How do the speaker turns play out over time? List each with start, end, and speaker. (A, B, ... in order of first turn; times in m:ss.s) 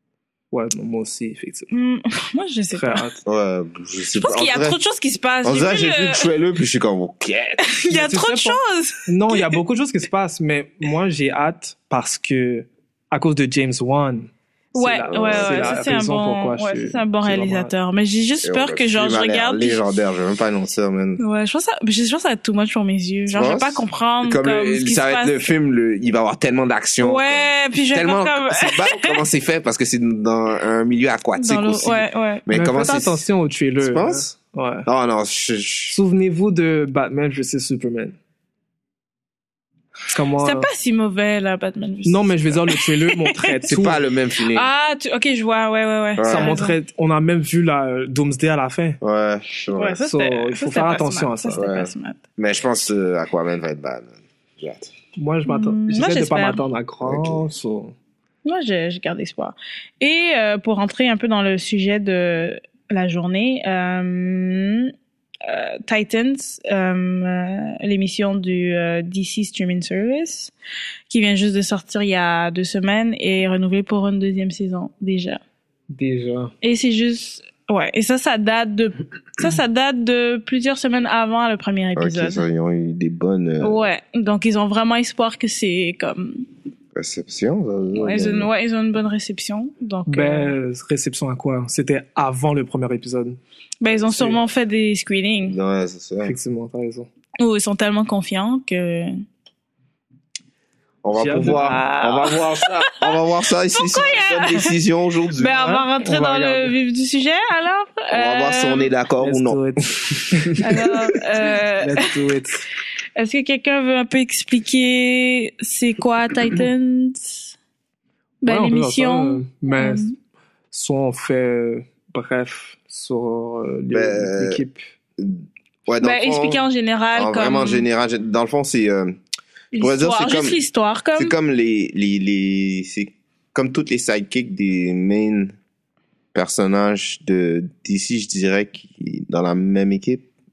0:00.5-0:01.7 A
0:01.7-0:03.1 B
0:02.7-0:03.2 A
0:03.2-0:04.8 C
0:04.2-0:06.3 B
0:05.4-0:07.8 C
0:07.6-0:09.6 B
0:07.9-0:17.7 A
0:14.7-0:19.8 B
0:15.0-0:15.8 C
0:18.4-0:21.2 C
0:21.2-0:25.4 B
0:23.3-0:33.2 C
0:27.0-0:29.2 B
0:31.3-0:32.4 B
0:32.5-0:34.8 A
0:33.8-0:34.3 C
0:34.8-0:36.0 C
0:35.9-0:38.2 A
0:40.1-0:40.7 A
0:40.4-0:43.5 B
0:42.0-0:44.0 A
0:43.7-0:44.7 C
0:44.5-0:46.8 B
0:46.2-0:46.6 C
0:46.2-0:49.0 A
0:49.0-0:50.0 C
0:49.8-0:52.2 B
0:50.0-0:51.6 A
0:51.6-0:54.9 C
0:55.2-0:57.9 A
0:55.4-0:56.6 B
0:57.0-0:57.5 C
0:58.4-1:04.9 B
1:05.4-1:10.5 B
1:11.1-1:15.4 B
1:15.9-1:16.5 A
1:16.6-1:22.4 B
1:22.0-1:23.9 C
1:23.6-1:26.4 B
1:26.9-1:28.5 C
1:27.9-1:30.5 B
1:30.1-1:33.4 A
1:33.8-1:35.6 B
1:34.1-1:34.4 A
1:35.4-1:36.3 C
1:36.2-1:37.1 A
1:37.4-1:39.1 B
1:41.0-1:45.6 C
1:41.1-1:41.8 A
1:41.4-1:43.2 B
1:43.7-1:44.7 B
1:45.4-1:48.9 B
1:45.6-1:46.7 A
1:48.1-1:49.6 C
1:49.2-1:51.2 A
1:50.6-1:52.1 B
1:51.8-1:52.7 A
1:53.2-1:57.5 B
1:58.4-2:00.1 B
1:58.4-2:00.1 A
2:00.7-2:04.8 A
2:03.9-2:04.6 C
2:05.2-2:06.6 C
2:06.0-2:07.8 B
2:07.1-2:09.2 C
2:09.7-2:11.3 B
2:09.8-2:10.6 C
2:11.1-2:15.5 C
2:16.3-2:20.2 C